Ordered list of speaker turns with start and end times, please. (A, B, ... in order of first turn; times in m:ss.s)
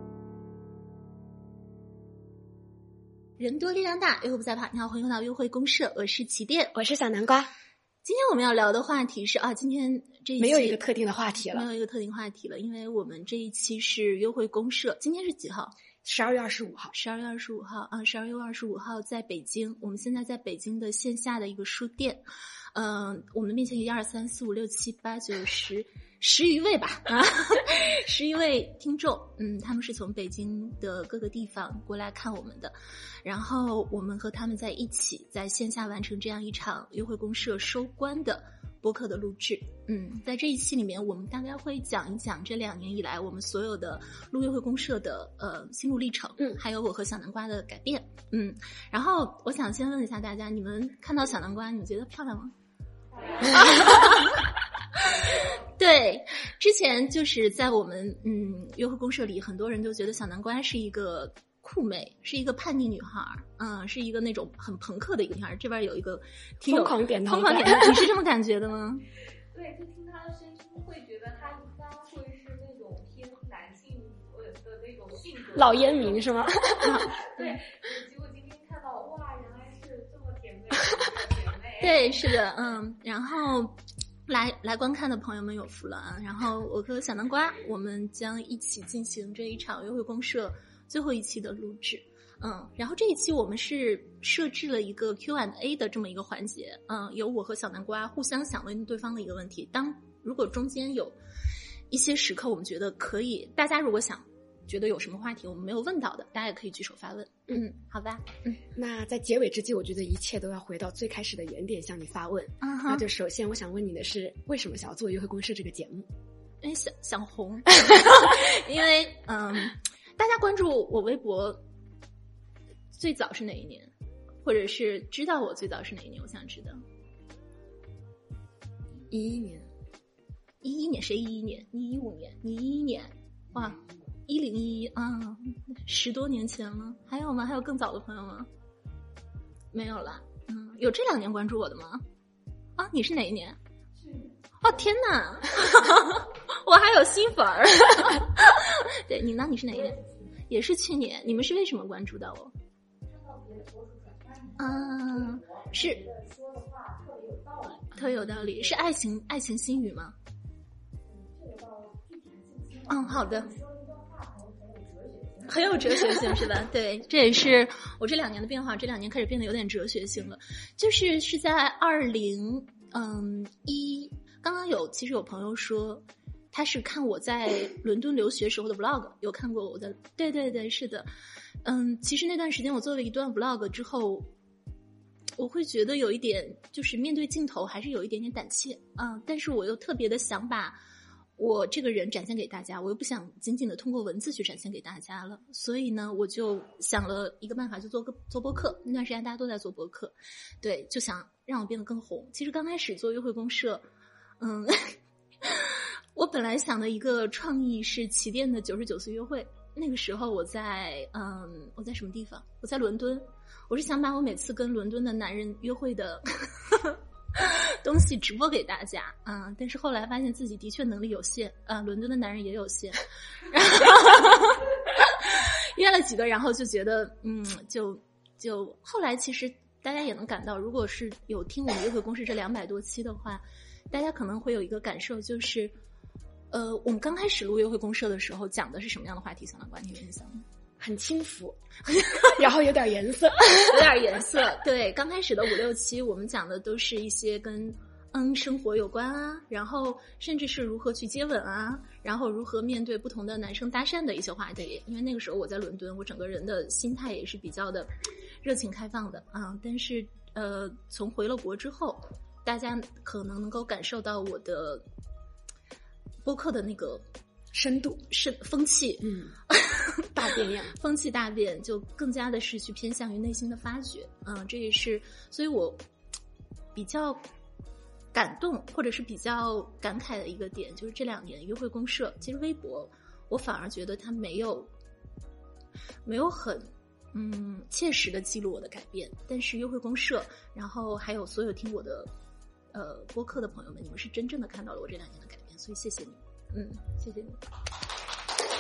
0:03.4-0:06.7 A
0:06.7-0:07.5 B
0:08.0-0:10.8 A
0:10.4-0:11.7 B
0:11.5-0:15.7 A
0:16.0-0:17.0 B
0:16.9-0:52.5 A
0:53.1-0:54.0 C
0:53.4-0:54.4 A
0:55.0-1:09.0 A
1:06.6-1:08.1 B
1:09.5-1:16.3 C
1:15.5-1:17.1 B
1:16.8-1:17.5 A
1:17.1-1:22.4 C
1:21.8-1:41.2 A
1:41.9-1:48.6 A
1:48.7-1:56.1 B
1:52.6-1:53.0 A
1:56.6-2:01.6 A
2:02.9-2:03.9 A
2:04.4-2:06.8 A
2:09.1-2:09.7 B
2:10.6-2:18.5 A
2:19.7-2:22.0 A
2:22.8-2:23.6 A
2:24.0-2:24.3 C
2:24.6-2:30.0 A
2:30.5-2:32.5 A
2:33.1-2:37.9 C
2:34.6-2:36.0 A
2:37.9-2:40.2 A
2:41.1-2:46.0 C
2:42.9-2:43.5 A
2:45.4-3:01.1 A
3:01.6-3:04.3 A
3:05.4-3:10.8 A
3:11.4-3:23.8 A
3:24.4-3:55.8 A
3:56.5-4:00.4 A
4:00.8-4:01.6 B
4:01.9-4:02.3 A
4:02.2-4:03.9 B
4:03.6-4:17.9 A
4:18.4-4:24.8 A
4:26.2-4:27.0 A
4:27.5-4:28.1 B
4:28.1-4:30.0 A
4:29.0-4:29.4 B
4:30.1-4:30.8 B
4:30.7-4:35.8 A
4:36.8-4:37.2 A
4:38.1-4:44.7 A
4:46.1-4:52.1 A
4:52.7-4:57.4 A